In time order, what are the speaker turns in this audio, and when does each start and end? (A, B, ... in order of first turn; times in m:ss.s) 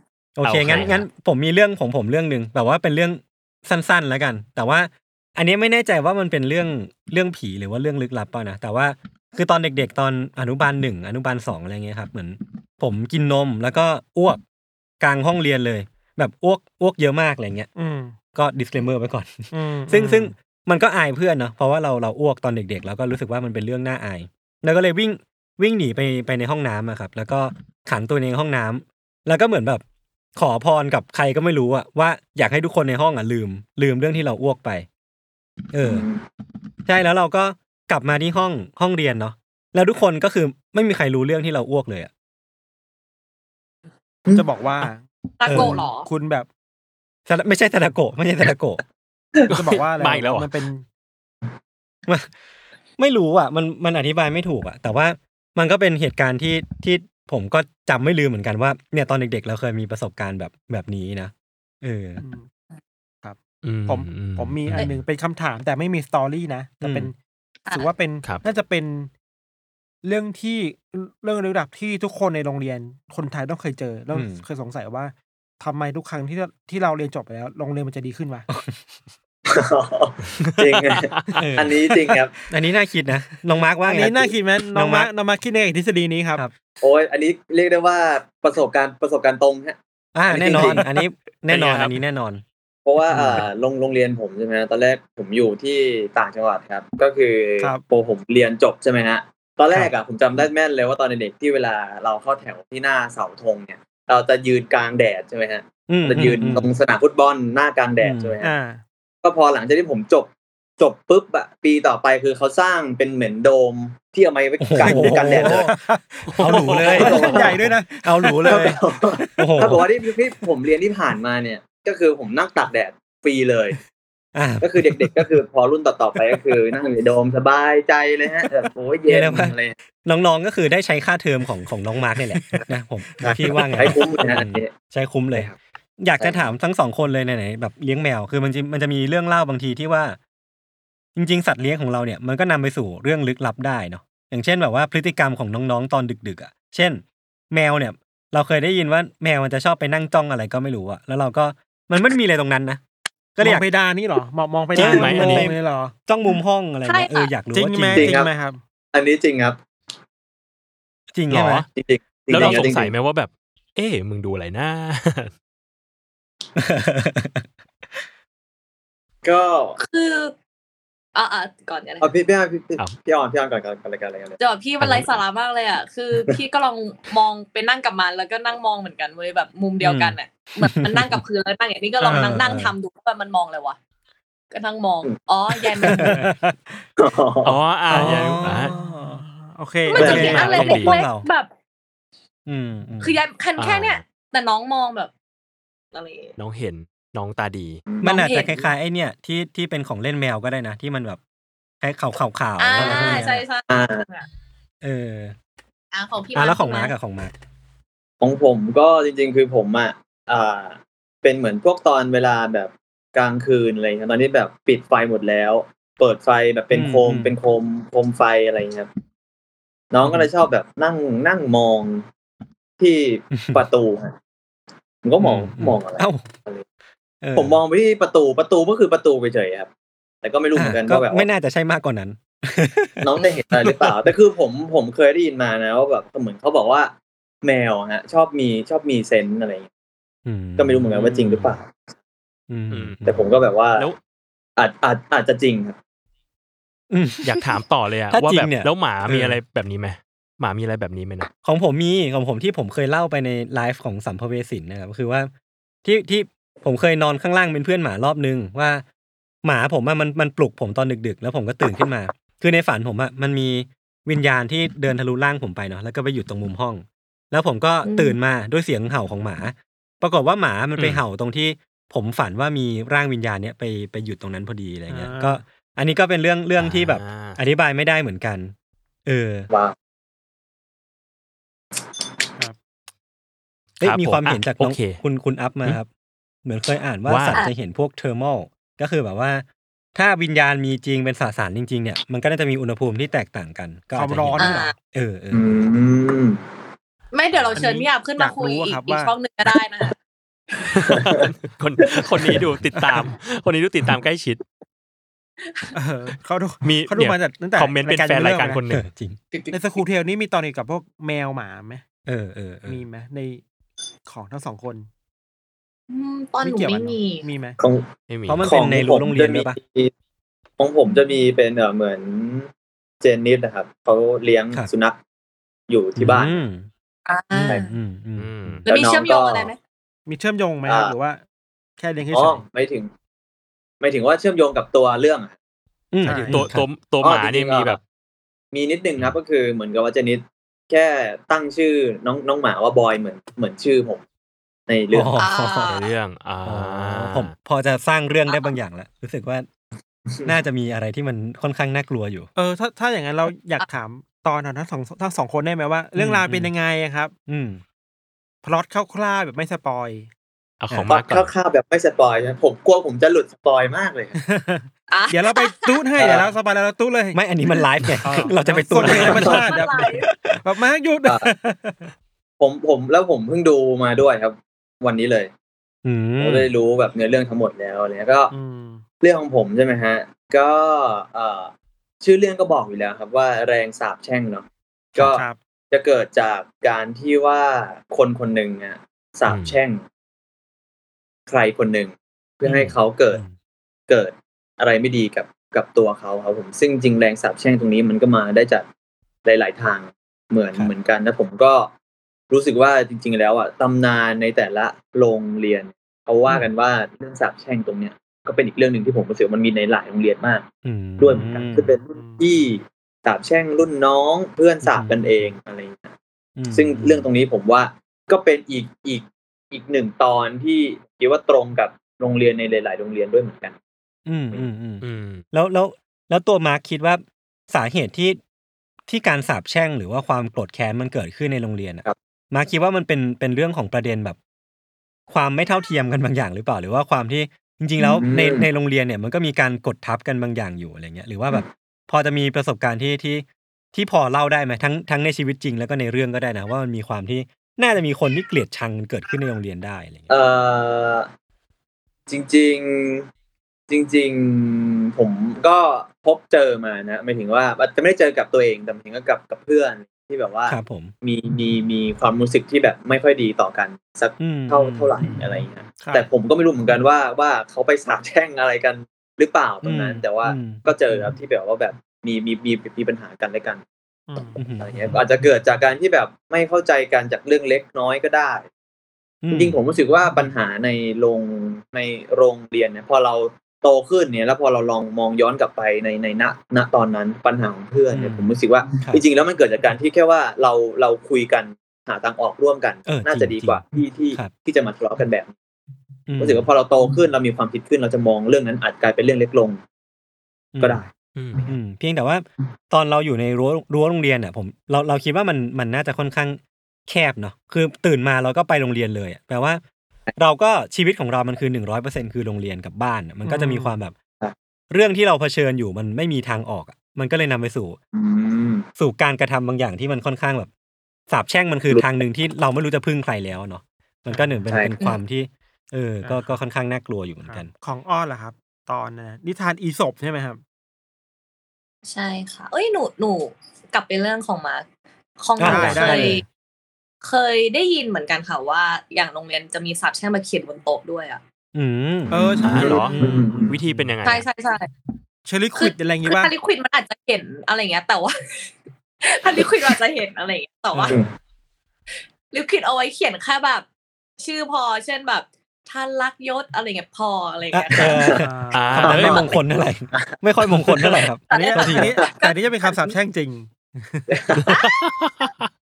0:00.4-0:14.4 A
0:00.4-0:01.1 B
0:15.0-0:17.7 A
0:17.8-0:18.2 C
0:18.3-0:29.8 A
0:19.5-0:20.3 C
0:30.4-0:34.9 A
0:35.7-0:36.0 A
0:35.8-0:36.2 D
0:36.9-0:42.1 A
0:44.3-0:44.5 D
0:44.3-0:46.5 C
0:45.4-0:46.1 E
0:45.5-0:45.8 A
0:47.3-0:48.8 A
0:49.5-0:50.6 B
0:49.5-0:50.8 C
0:53.0-1:02.2 A
1:02.2-1:02.5 C
1:03.2-1:07.2 C
1:03.6-1:04.9 B
1:06.8-1:07.1 A
1:07.7-1:09.1 C
1:10.0-1:18.5 C
1:14.1-1:14.4 A
1:18.5-1:18.8 A
1:19.5-1:22.3 D
1:20.8-1:21.3 B
1:21.4-1:21.8 A
1:22.5-1:25.1 A
1:23.9-1:26.4 C
1:26.8-1:29.8 D
1:30.2-1:32.4 A
1:30.3-1:30.9 D
1:30.5-1:30.9 C
1:31.5-1:32.0 B
1:32.8-1:48.5 D
1:33.1-1:33.5 A
1:45.9-1:46.7 A
1:48.0-1:48.3 A
1:48.4-1:48.8 C
1:49.2-1:55.7 D
1:54.6-1:55.8 A
1:54.8-1:58.8 C
1:56.3-1:57.2 B
1:56.4-1:58.8 A
1:56.8-1:57.6 D
1:58.5-2:03.8 D
1:59.4-1:59.8 A
2:04.4-2:05.3 A
2:04.6-2:09.8 D
2:09.1-2:20.2 A
2:13.2-2:14.7 D
2:16.2-2:16.5 D
2:21.2-2:32.8 A
2:33.4-2:33.7 A
2:33.4-2:36.0 C
2:34.8-2:35.5 B
2:34.8-2:38.2 A
2:36.9-2:37.3 E
2:37.5-2:38.6 C
2:37.9-2:38.3 D
2:38.9-2:39.6 D
2:41.1-2:41.6 A
2:41.3-2:41.7 B
2:41.8-2:42.9 D
2:42.3-2:45.3 B
2:46.6-2:47.4 A
2:49.2-2:49.8 D
2:49.8-2:50.3 E
2:51.2-2:52.1 E
2:52.0-2:54.4 D
2:54.4-3:03.8 E
2:54.8-2:55.1 B
2:59.8-3:01.2 A
3:02.0-3:02.7 A
3:04.5-3:06.1 E
3:05.9-3:06.4 A
3:06.0-3:06.4 C
3:07.0-3:07.6 D
3:07.4-3:08.7 B
3:07.9-3:09.2 A
3:07.9-3:10.5 C
3:09.9-3:11.5 E
3:10.0-3:11.3 A
3:10.0-3:10.4 D
3:10.0-3:11.0 B
3:12.5-3:13.2 A
3:13.0-3:15.1 E
3:13.6-3:14.0 B
3:15.9-3:16.4 E
3:16.4-3:17.8 B
3:18.0-3:21.2 A
3:18.0-3:18.6 E
3:21.8-3:23.4 A
3:22.6-3:24.3 E
3:22.8-3:24.0 D
3:24.8-3:25.4 A
3:25.9-3:26.9 E
3:26.4-3:27.3 A
3:28.2-3:38.9 D
3:36.7-3:37.3 A
3:39.9-3:42.1 D
3:42.8-3:44.2 D
3:43.4-3:43.6 A
3:45.0-3:46.6 D
3:45.2-3:46.3 A
3:47.2-3:47.6 A
3:47.4-3:49.7 D
3:50.2-3:51.2 D
3:50.6-3:53.9 A
3:53.0-3:59.7 D
4:00.2-4:01.6 A
4:00.6-4:01.8 D
4:02.5-4:03.3 A
4:02.7-4:03.0 B
4:03.0-4:03.9 D
4:04.6-4:05.8 D
4:06.9-4:07.5 A
4:07.2-4:11.3 B
4:08.1-4:09.4 A
4:11.4-4:15.3 A
4:15.8-4:18.8 A
4:19.4-4:38.5 A
4:27.8-4:28.2 E
4:34.9-4:35.4 C
4:36.6-4:37.4 B
4:39.1-4:39.5 A
4:39.5-4:39.8 D
4:43.8-4:45.9 A
4:43.8-4:45.0 B
4:46.4-4:55.6 A
4:47.1-4:47.4 B
4:54.0-4:54.7 C
4:54.4-4:54.7 E
4:55.3-4:56.4 D
4:57.1-5:00.0 E
4:57.6-4:59.1 C
5:00.8-5:04.4 B
5:00.9-5:01.2 D
5:05.5-5:05.7 E
5:05.7-5:08.6 C
5:06.6-5:08.8 B
5:08.7-5:09.2 A
5:09.5-5:11.8 C
5:12.1-5:12.8 A
5:12.7-5:13.4 C
5:14.1-5:14.9 C
5:15.9-5:17.3 E
5:16.4-5:17.6 C
5:17.6-5:17.9 D
5:18.1-5:18.5 B
5:18.3-5:19.6 A
5:18.4-5:19.9 D
5:20.6-5:22.5 D
5:23.0-5:25.0 D
5:25.7-5:26.4 D
5:26.0-5:26.7 A
5:27.1-5:27.7 E
5:27.3-5:28.6 A
5:28.2-5:28.6 B
5:28.7-5:29.5 D
5:28.7-5:29.6 E
5:30.1-5:31.2 C
5:30.6-5:31.0 D
5:31.8-5:32.4 C
5:32.1-5:32.9 D
5:33.8-5:35.3 D
5:35.9-5:36.7 A
5:36.0-5:36.5 C
5:36.3-5:37.8 B
5:37.0-5:37.8 D
5:38.5-5:44.0 D
5:44.7-5:45.2 D
5:44.9-5:45.8 A
5:45.2-5:45.9 E
5:45.7-5:47.3 B
5:46.4-5:49.5 A
5:48.3-5:48.6 E
5:50.1-5:50.3 D
5:50.2-5:52.3 A
5:52.4-5:57.1 C
5:56.0-5:56.5 A
5:57.3-5:57.6 A
5:58.4-6:00.1 C
6:00.6-6:01.3 B
6:00.9-6:04.2 D
6:04.2-6:07.2 C
6:04.9-6:05.8 E
6:06.0-6:06.3 D
6:07.1-6:09.5 A
6:08.0-6:09.9 C
6:08.8-6:09.5 D
6:09.0-6:10.1 E
6:10.4-6:11.9 C
6:12.4-6:15.3 D
6:15.8-6:16.5 A
6:16.2-6:18.3 D
6:18.3-6:18.8 C
6:19.0-6:24.5 D
6:25.0-6:29.8 D
6:25.0-6:25.4 C
6:29.3-6:29.6 B
6:31.3-6:33.2 D
6:32.5-6:33.4 A
6:33.9-6:38.7 D
6:39.3-6:41.7 D
6:42.3-6:50.4 D
6:50.6-6:51.7 A
6:51.0-6:55.9 D
6:51.9-6:52.3 C
6:54.6-6:55.3 A
6:56.4-6:57.1 A
6:56.5-7:03.6 D
7:04.1-7:08.2 A
7:04.8-7:05.2 B
7:08.9-7:14.2 A
7:15.1-7:30.2 A
7:17.8-7:18.5 D
7:30.1-7:31.1 D
7:32.1-7:33.1 D
7:33.7-7:53.6 D
7:40.5-7:40.9 A
7:44.2-7:45.2 A
7:45.8-7:46.1 C
7:49.6-7:50.6 A
7:54.1-7:54.4 C
7:54.4-7:55.0 A
7:54.6-7:58.5 D
7:59.2-7:59.6 A
7:59.3-8:15.3 D
8:07.9-8:09.0 A
8:12.9-8:13.6 A
8:16.1-8:16.5 A
8:16.2-8:19.6 D
8:20.5-8:20.8 A
8:20.6-8:21.5 D
8:21.2-8:21.4 B
8:21.5-8:29.6 A
8:30.2-8:33.9 A
8:33.2-8:33.8 C
8:34.7-8:37.8 A
8:37.9-8:38.7 D
8:38.8-8:40.5 A
8:41.1-8:47.5 A
8:44.1-8:44.4 C
8:44.5-8:44.8 D
8:46.0-8:46.4 C
8:47.2-8:50.4 C
8:51.9-8:54.6 E
8:55.2-8:56.2 E
8:55.4-8:56.2 A
8:55.4-8:56.2 C
8:57.0-9:01.2 E
9:01.5-9:04.0 A
9:02.1-9:03.0 C
9:02.2-9:03.6 D
9:02.4-9:03.0 B
9:03.5-9:04.2 B
9:04.0-9:04.7 E
9:05.3-9:06.3 C
9:05.6-9:08.5 E
9:09.0-9:11.0 E
9:10.7-9:11.1 A
9:12.3-9:13.6 E
9:14.2-9:18.1 E
9:17.5-9:21.9 A
9:17.8-9:18.2 D
9:18.2-9:19.0 C
9:18.5-9:19.3 B
9:18.8-9:19.3 D
9:21.3-9:23.0 E
9:21.3-9:24.1 C
9:24.1-9:24.5 D
9:24.4-9:25.5 B
9:24.5-9:24.8 E